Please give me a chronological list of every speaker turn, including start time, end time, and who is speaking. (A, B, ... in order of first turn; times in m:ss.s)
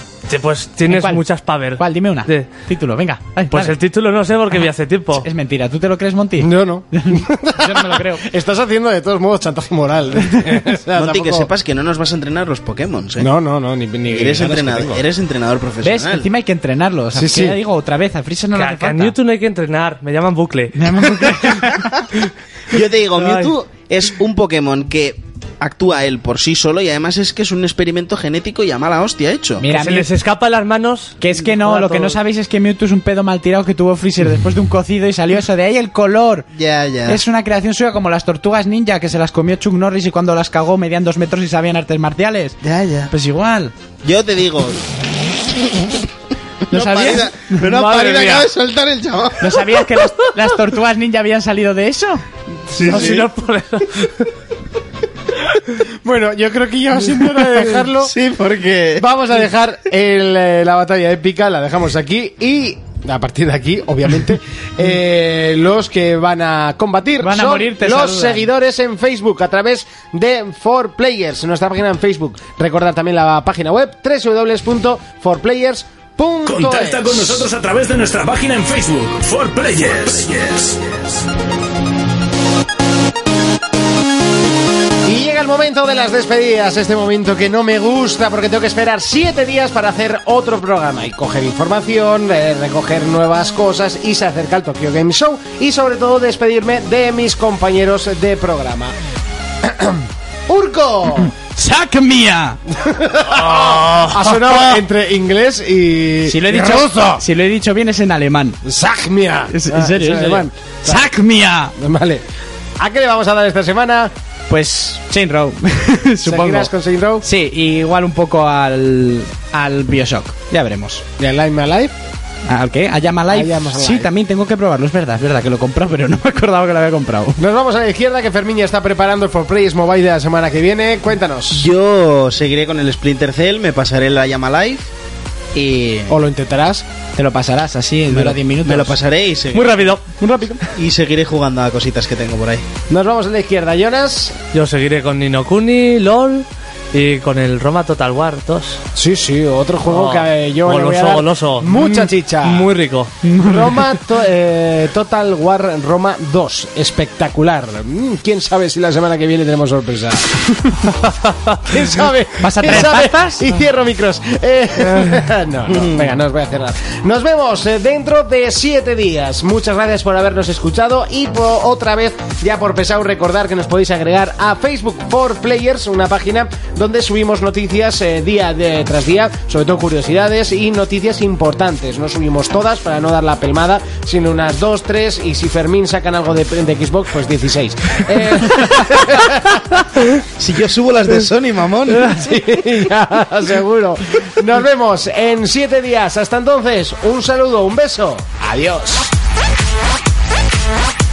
0:00.3-0:02.5 A
0:00.9-0:03.8 B
0:03.5-0:05.3 A
0:05.2-0:08.2 B
0:06.4-0:11.5 C
0:10.9-0:13.3 D
0:13.2-0:15.0 C
0:14.1-0:16.3 D
0:15.8-0:19.2 B
0:17.2-0:17.6 C
0:18.5-0:21.6 A
0:20.8-0:21.9 B
0:22.7-0:29.7 D
0:23.2-0:23.5 A
0:29.6-0:30.1 B
0:29.7-0:32.2 A
0:31.2-0:36.5 B
0:36.6-0:37.2 D
0:37.1-0:42.6 B
0:42.6-0:43.1 D
0:43.1-0:43.7 B
0:44.0-0:44.8 D
0:46.7-0:49.7 D
0:46.7-0:47.7 B
0:47.6-0:48.5 A
0:49.4-0:52.2 B
0:52.7-0:53.3 D
0:52.7-0:54.3 A
0:56.0-0:58.1 C
0:57.9-0:59.1 D
0:59.0-1:17.5 C
1:07.2-1:08.5 B
1:16.5-1:21.2 E
1:25.1-1:38.9 C
1:39.6-1:41.3 C
1:41.4-1:42.6 B
1:42.8-1:47.2 C
1:43.6-1:44.1 A
1:46.3-1:48.6 B
1:48.6-1:51.1 C
1:49.5-1:51.7 B
1:51.8-1:52.2 C
1:52.8-1:54.1 C
1:54.5-1:56.7 B
1:56.2-1:57.2 C
1:57.2-2:01.0 B
2:01.2-2:01.9 C
2:02.5-2:07.4 B
2:03.3-2:04.1 C
2:07.4-2:11.7 C
2:11.5-2:14.9 D
2:15.6-2:16.2 D
2:16.1-2:16.8 C
2:17.2-2:19.0 B
2:18.1-2:20.0 D
2:19.5-2:20.0 A
2:20.2-2:20.6 B
2:20.8-2:22.7 D
2:22.9-2:24.4 C
2:24.5-2:28.8 A
2:29.0-2:32.7 C
2:29.8-2:33.1 A
2:33.2-2:33.6 B
2:33.4-2:40.9 C
2:41.2-2:41.6 A
2:41.6-3:09.6 C
2:42.4-2:43.5 B
2:45.7-2:46.1 D
3:10.4-3:12.1 D
3:12.0-3:19.1 C